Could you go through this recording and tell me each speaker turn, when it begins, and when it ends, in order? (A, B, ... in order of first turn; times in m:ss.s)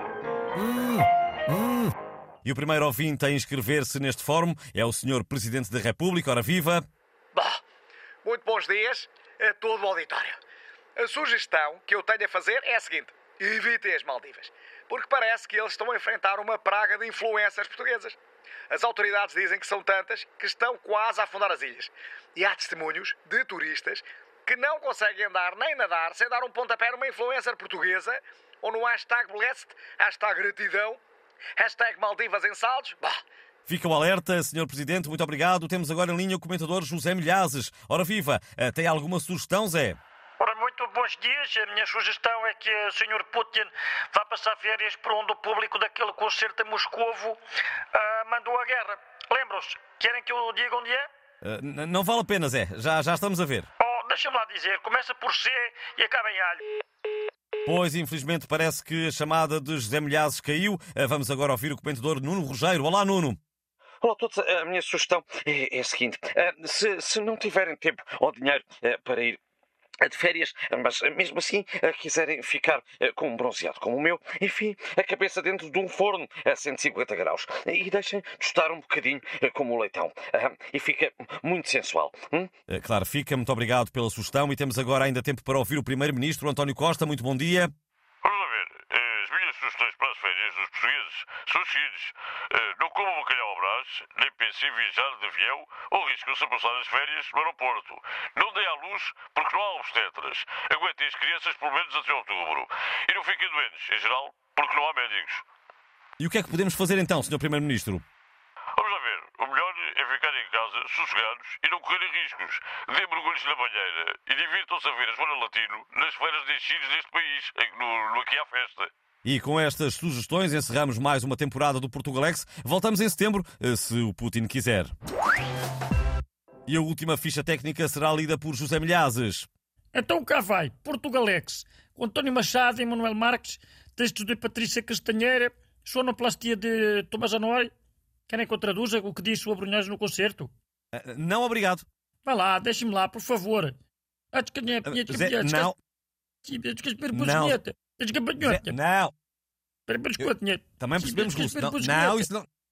0:00.6-0:01.9 A
0:02.4-0:06.8 A
0:07.4-0:07.6 B
0:08.2-0:10.4 B
0:11.0-0:18.2 B
0:18.7-0:31.0 B
0:31.6-0:33.2 B
0:33.7-0:40.0 A
0:40.4-0:47.4 C
0:47.9-0:51.1 C
0:51.4-0:53.7 A
0:53.8-0:56.6 C
0:57.7-1:03.4 A
1:04.0-1:09.4 D
1:10.0-1:22.5 D
1:22.7-1:27.7 A
1:28.2-1:45.4 E
1:46.2-1:48.0 A
1:48.8-1:58.9 E
1:59.2-2:04.9 A
2:06.7-2:09.5 A
2:09.9-2:17.7 C
2:18.3-2:20.5 C
2:20.9-2:21.9 A
2:22.2-2:23.8 C
2:24.3-2:25.7 C
2:24.8-2:25.8 A
2:26.4-2:28.7 C
2:27.1-2:27.6 A
2:28.4-2:29.1 A
2:29.9-2:32.3 C
2:30.2-2:32.5 A